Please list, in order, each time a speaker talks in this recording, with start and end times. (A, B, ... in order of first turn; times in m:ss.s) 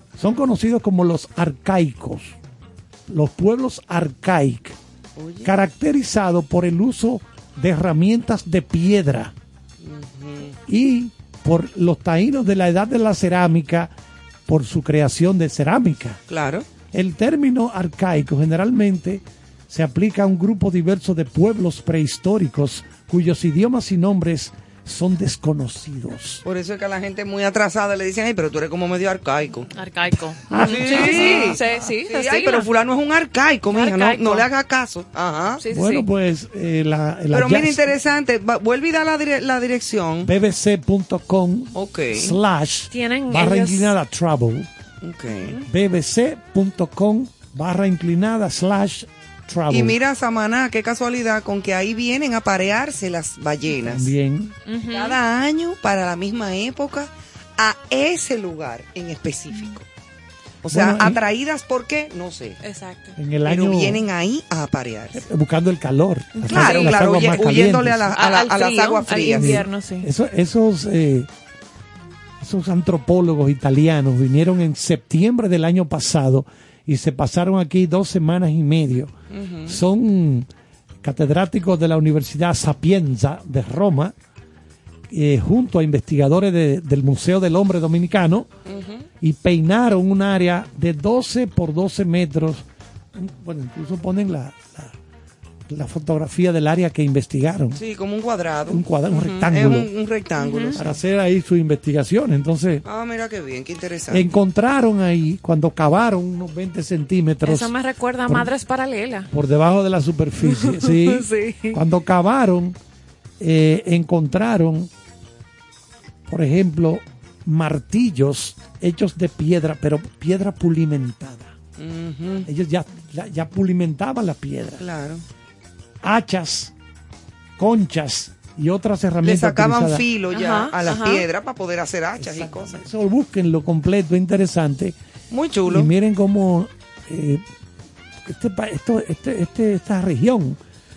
0:00.2-0:02.4 A
0:03.1-0:04.8 A
0:05.2-0:05.5 B
0:05.4-0:09.3 A
0:09.8-0:10.6 B
0:10.7-0:13.9 A
0:14.5-0:16.2 A
0:16.3-0:16.7 B
0:16.9-0:26.4 A
0:26.4-0:29.7 B
0:29.7-0:32.7 C
0:30.5-0:31.8 A
0:30.5-0:35.6 B
0:33.7-0:34.5 C
0:35.6-0:36.1 C
0:35.7-0:38.0 A
0:37.3-0:40.3 B
0:40.2-0:44.7 A
0:41.8-0:42.4 B
0:42.9-0:44.0 C
0:45.0-0:45.6 B
0:45.7-0:50.0 A
0:49.7-0:54.1 B
0:53.8-0:54.6 A
0:54.7-0:55.2 C
0:54.9-0:59.9 B
1:00.6-1:02.6 B
1:00.7-1:01.2 A
1:02.6-1:03.2 C
1:03.2-1:04.0 A
1:03.4-1:05.2 B
1:05.1-1:08.0 A
1:06.3-1:07.5 C
1:06.5-1:09.6 B
1:08.1-1:10.1 C
1:09.3-1:11.3 A
1:12.4-1:19.1 A
1:19.3-1:19.8 B
1:19.7-1:20.5 A
1:21.0-1:24.2 A
1:25.1-1:28.5 A
1:28.7-1:29.1 B
1:29.2-1:35.0 A
1:35.7-1:37.8 A
1:37.8-1:40.9 B
1:38.7-1:39.9 A
1:40.4-1:40.8 C
1:40.8-1:42.8 A
1:42.8-1:44.2 B
1:44.1-1:47.7 A
1:47.4-1:49.3 C
1:49.3-1:52.8 A
1:50.4-1:51.8 C
1:53.4-1:54.9 A
1:56.3-2:01.6 A
2:01.8-2:02.5 B
2:02.5-2:04.8 A
2:04.8-2:05.2 B
2:06.0-2:06.7 A
2:07.6-2:10.1 A
2:09.2-2:12.8 B
2:10.3-2:11.2 C
2:12.2-2:15.0 A
2:15.3-2:15.9 B
2:15.7-2:17.4 A
2:18.2-2:20.6 A